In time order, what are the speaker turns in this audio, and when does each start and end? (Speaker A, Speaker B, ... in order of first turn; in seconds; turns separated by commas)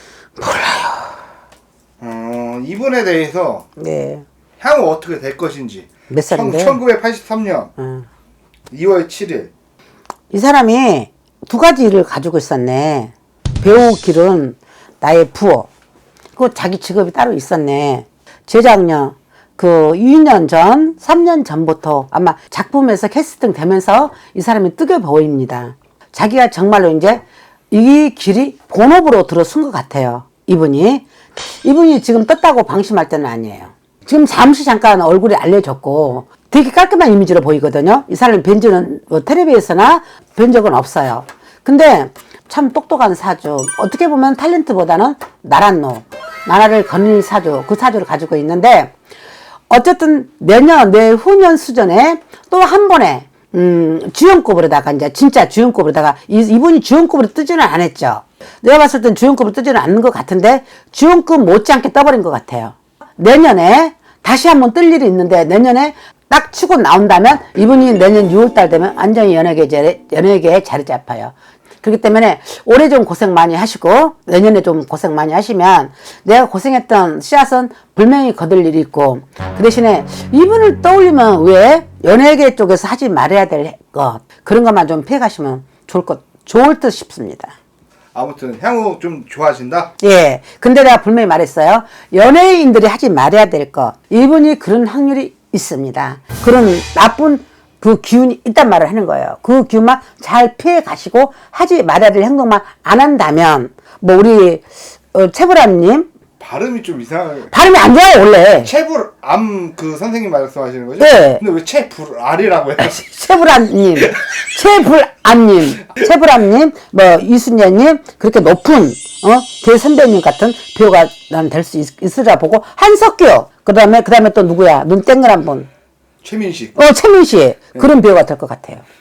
Speaker A: 0.4-1.2, Speaker B: 2.0-3.7, Speaker A: 3.8-4.2, Speaker B: 4.6-7.7, Speaker A: 6.1-6.8, Speaker A: 7.8-8.1, Speaker B: 8.7-9.5, Speaker A: 10.3-15.7, Speaker A: 16.4-48.9, Speaker A: 49.7-87.5, Speaker B: 88.1-89.9, Speaker A: 90.0-106.1, Speaker B: 106.4-107.5, Speaker A: 107.5-108.7, Speaker B: 108.6-113.0, Speaker A: 111.0-111.4, Speaker A: 112.8-125.7, Speaker B: 126.2-126.8, Speaker A: 126.8-128.8